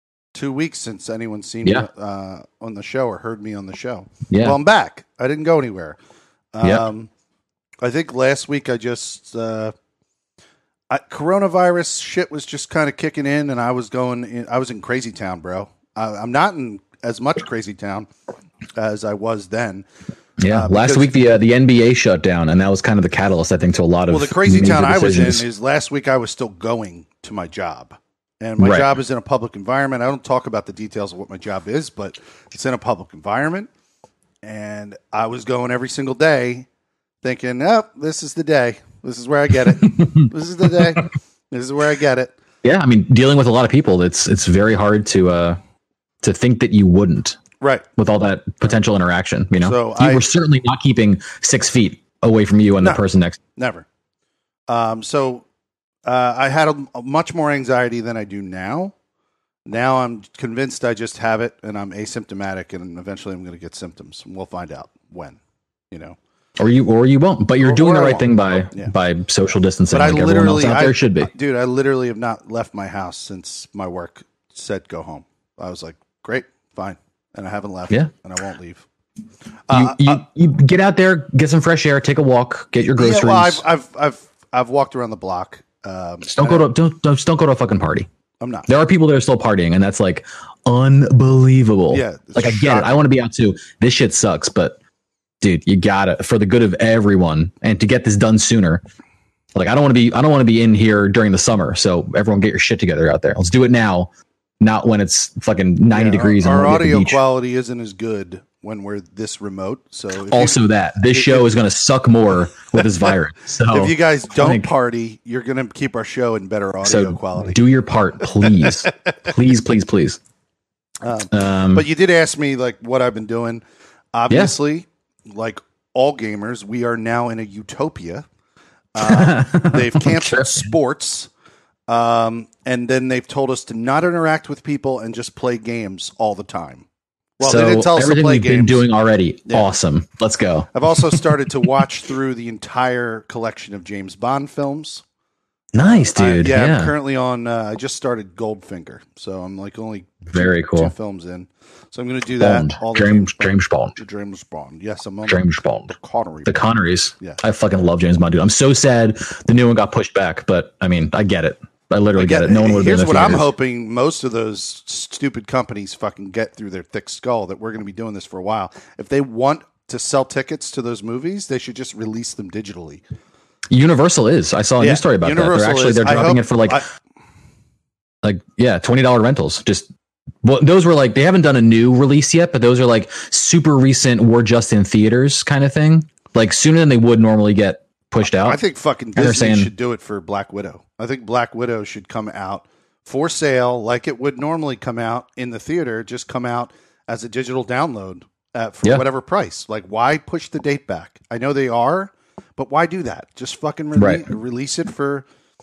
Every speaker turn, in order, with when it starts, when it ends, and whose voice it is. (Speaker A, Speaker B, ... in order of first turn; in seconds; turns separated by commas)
Speaker A: 0.3-6.0, Speaker B: 4.3-4.6, Speaker A: 6.5-7.1, Speaker A: 7.8-9.7, Speaker A: 10.9-18.1, Speaker A: 18.8-19.9, Speaker B: 20.4-25.4, Speaker A: 20.5-21.3, Speaker A: 24.1-33.7, Speaker B: 28.6-28.9, Speaker A: 34.4-36.7, Speaker A: 37.2-42.3, Speaker B: 42.6-45.6, Speaker B: 46.2-47.4, Speaker B: 48.0-53.4, Speaker A: 49.6-50.3, Speaker A: 53.6-53.9, Speaker A: 54.7-55.5, Speaker A: 56.1-58.9, Speaker A: 59.7-65.4, Speaker A: 65.9-66.2, Speaker B: 66.6-71.3, Speaker A: 67.6-68.9, Speaker A: 69.9-78.9, Speaker A: 79.7-80.2, Speaker B: 79.7-83.6, Speaker A: 83.0-86.7, Speaker B: 86.3-88.1, Speaker A: 88.4-88.7, Speaker B: 88.7-94.8, Speaker A: 91.9-93.0, Speaker B: 95.4-98.8, Speaker B: 99.5-107.2, Speaker A: 105.9-110.6, Speaker B: 110.3-114.7, Speaker A: 111.1-111.5, Speaker A: 113.7-117.6, Speaker B: 116.8-120.2, Speaker A: 118.4-118.9, Speaker A: 121.0-123.6, Speaker B: 121.3-121.8, Speaker A: 124.1-128.2, Speaker B: 124.3-124.5, Speaker A: 128.9-131.3, Speaker B: 129.0-130.7, Speaker A: 131.9-136.9, Speaker A: 137.4-138.8, Speaker B: 137.4-140.7, Speaker A: 140.7-145.0, Speaker B: 145.7-146.9, Speaker A: 145.8-156.7, Speaker B: 150.3-150.9, Speaker B: 152.4-154.0, Speaker B: 155.3-155.9, Speaker B: 156.5-163.5, Speaker A: 162.2-173.0, Speaker B: 173.7-176.8, Speaker A: 174.8-176.9, Speaker B: 178.2-179.9, Speaker B: 180.4-188.6, Speaker A: 188.3-205.2, Speaker B: 189.2-189.7, Speaker B: 204.0-204.2